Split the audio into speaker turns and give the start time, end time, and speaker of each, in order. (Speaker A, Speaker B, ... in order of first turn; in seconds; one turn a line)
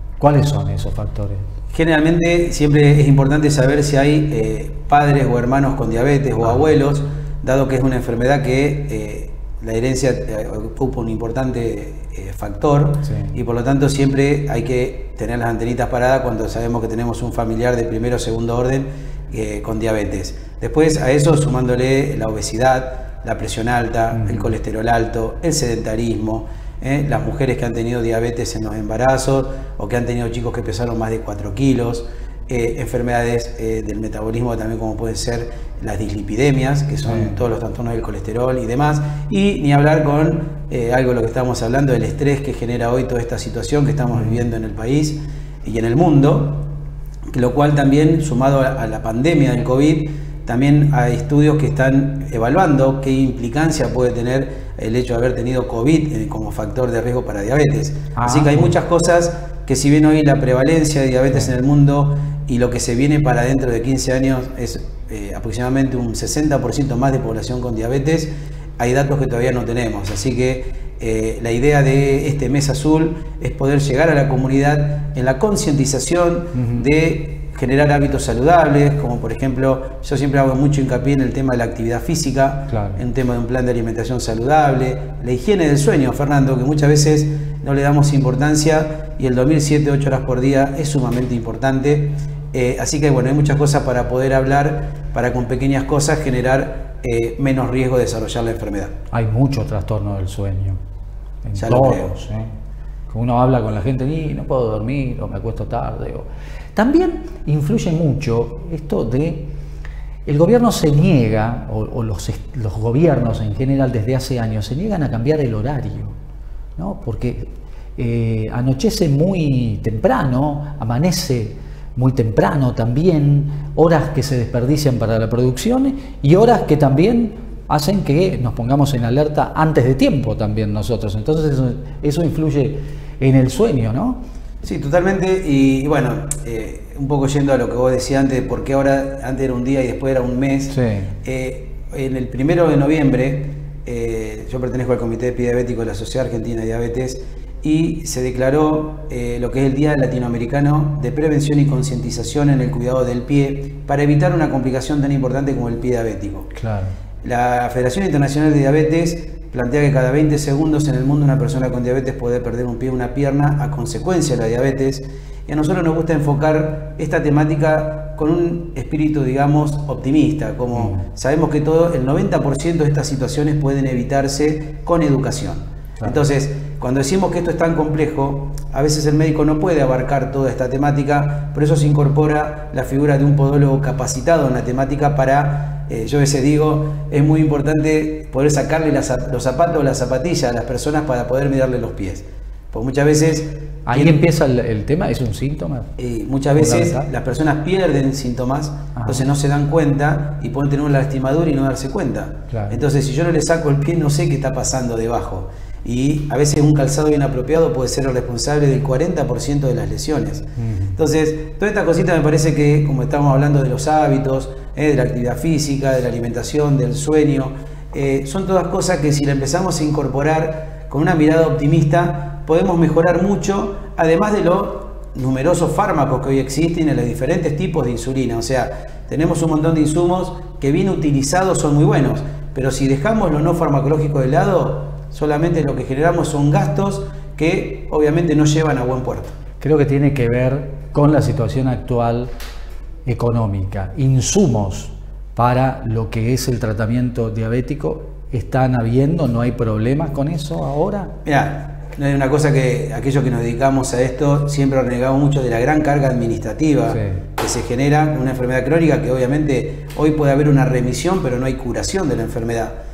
Speaker A: 0.2-1.4
Speaker B: 1.7-46.7
Speaker A: 24.1-24.4
Speaker A: 44.1-44.4
Speaker B: 47.3-98.9
Speaker A: 58.1-58.7
Speaker A: 76.5-76.8
Speaker A: 82.7-83.0
Speaker A: 99.1-100.8
Speaker A: 101.4-102.5
Speaker B: 101.5-102.1
Speaker A: 103.1-109.5
Speaker A: 110.2-116.2
Speaker A: 116.8-134.2
Speaker B: 134.6-156.5
Speaker A: 140.7-141.1
Speaker A: 156.6-156.9
Speaker B: 157.2-194.2
Speaker A: 193.8-195.9
Speaker B: 196.0-239.3
Speaker A: 196.6-197.1
Speaker A: 198.9-199.2
Speaker A: 202.5-202.8
Speaker A: 239.6-242.3
Speaker A: 243.0-251.1
Speaker B: 251.2-262.7